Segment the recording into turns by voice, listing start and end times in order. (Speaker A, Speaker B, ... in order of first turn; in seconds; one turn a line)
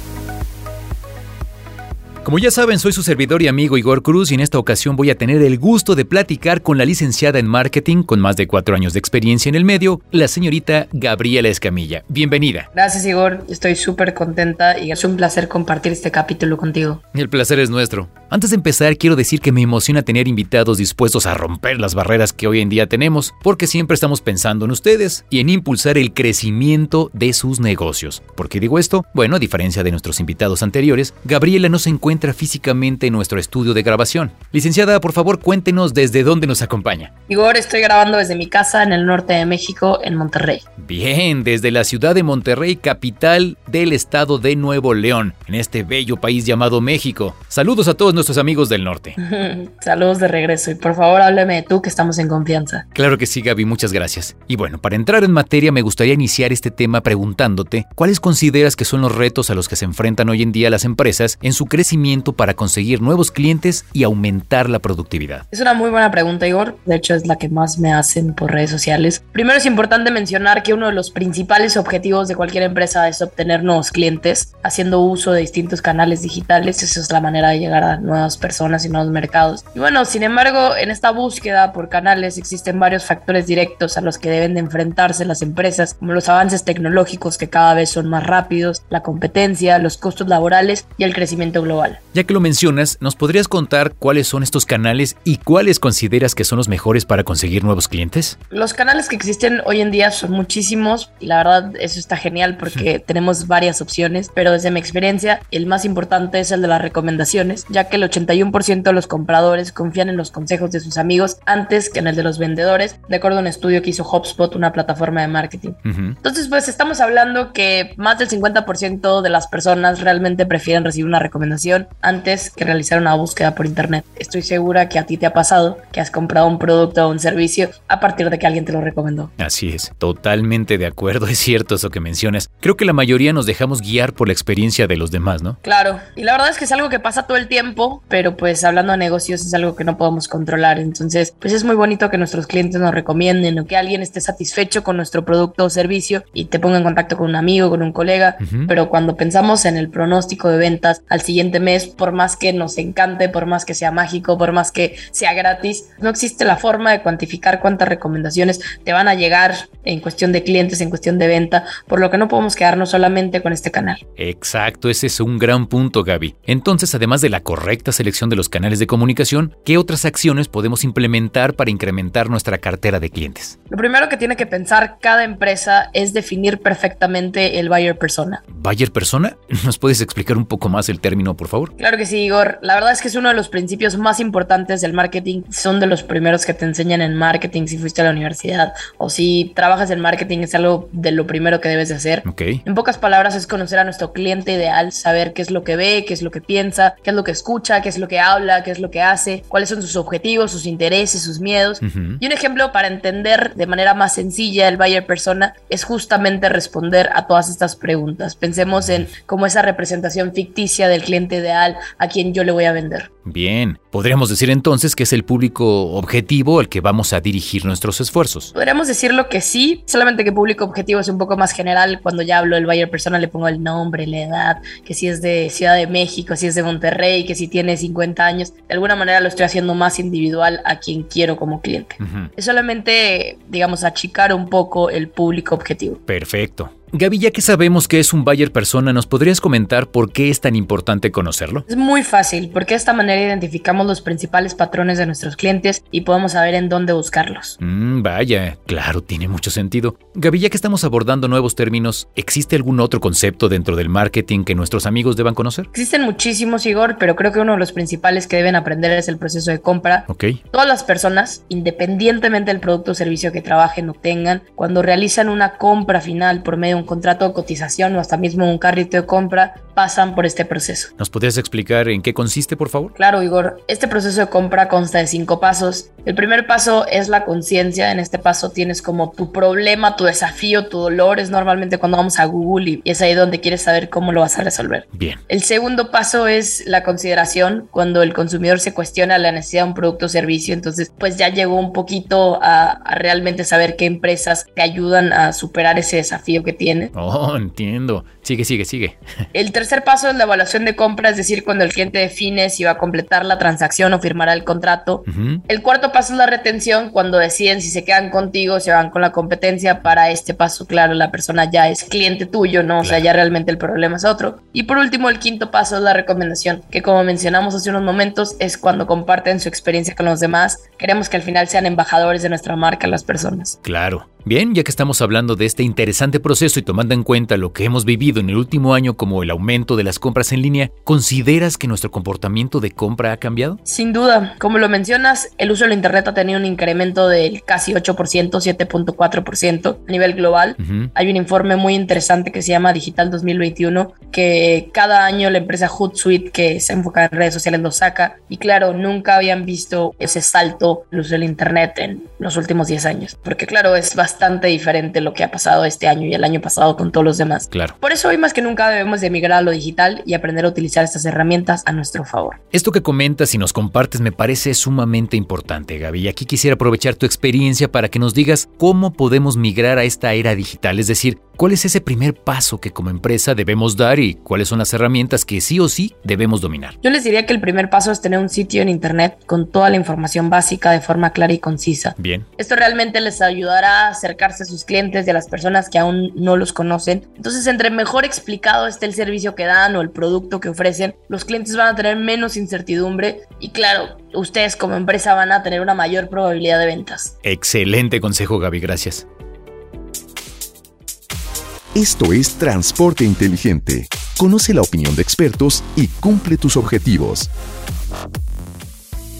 Speaker A: 2.2-12.7
Speaker B: 12.7-17.0
Speaker A: 17.1-37.1
Speaker B: 37.3-40.6
Speaker A: 40.8-49.2
Speaker B: 49.2-52.8
Speaker A: 52.9-65.4
Speaker B: 65.5-92.0
Speaker A: 92.1-98.3
Speaker B: 98.5-129.3
Speaker A: 115.8-116.2
Speaker A: 129.4-135.6
Speaker B: 135.6-164.0
Speaker A: 148.4-148.7
Speaker A: 164.2-173.5
Speaker B: 173.7-178.4
Speaker A: 178.5-181.7
Speaker B: 181.8-213.1
Speaker A: 192.2-192.6
Speaker A: 201.8-202.2
Speaker A: 213.2-218.5
Speaker B: 218.5-236.0
Speaker A: 232.0-232.3
Speaker A: 236.1-241.6
Speaker B: 241.7-247.6
Speaker A: 247.6-255.7
Speaker B: 255.7-270.9
Speaker A: 260.1-260.4
Speaker A: 271.0-272.9
Speaker B: 272.9-296.9
Speaker A: 284.9-285.2
Speaker A: 296.9-299.0
Speaker B: 299.3-323.6
Speaker A: 305.1-305.4
Speaker A: 312.8-313.1
Speaker A: 323.6-333.6
Speaker B: 333.6-362.4
Speaker A: 340.6-340.9
Speaker A: 362.5-376.7
Speaker B: 376.8-397.1
Speaker A: 382.0-382.2
Speaker A: 397.2-399.0
Speaker C: 401.7-407.3